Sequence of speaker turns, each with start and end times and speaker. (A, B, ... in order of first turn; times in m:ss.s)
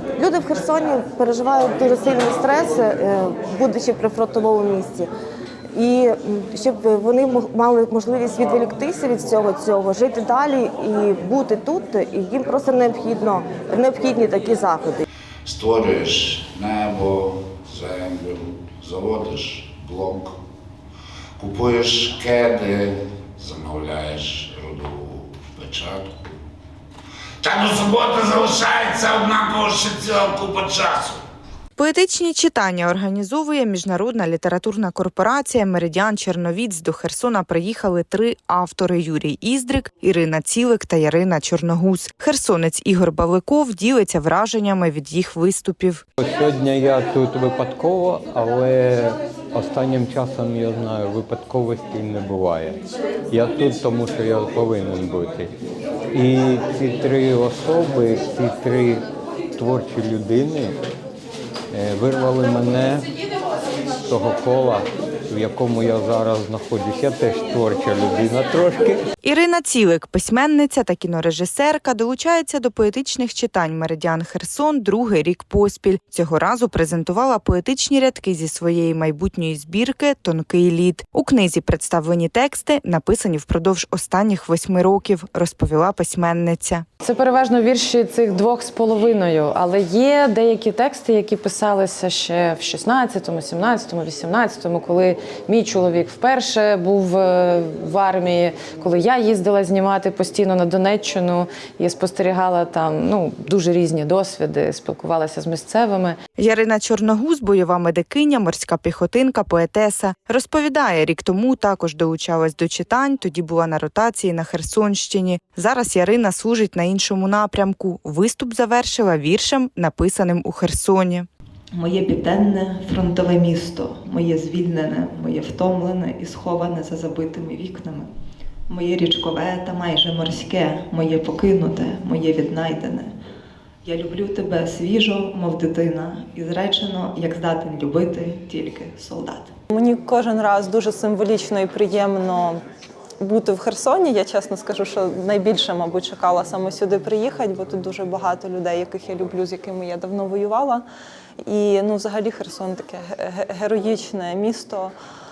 0:00.2-0:05.1 A
0:05.7-0:15.0 A
0:15.5-0:20.3 B
0:21.4-0:26.4 B
0:27.4-0:31.2 B
0:31.8-0:46.0 C
0:46.2-0:55.5 D
0:56.1-1:00.8 D
1:01.7-1:03.1 D
1:04.0-1:09.0 D
1:09.2-1:26.8 C
1:27.0-1:46.2 E
1:46.4-2:01.3 C
2:01.7-2:08.1 F
2:08.7-2:13.1 F
2:13.8-2:19.5 F
2:19.7-2:22.6 G
2:23.2-2:30.8 G
2:31.5-2:34.9 G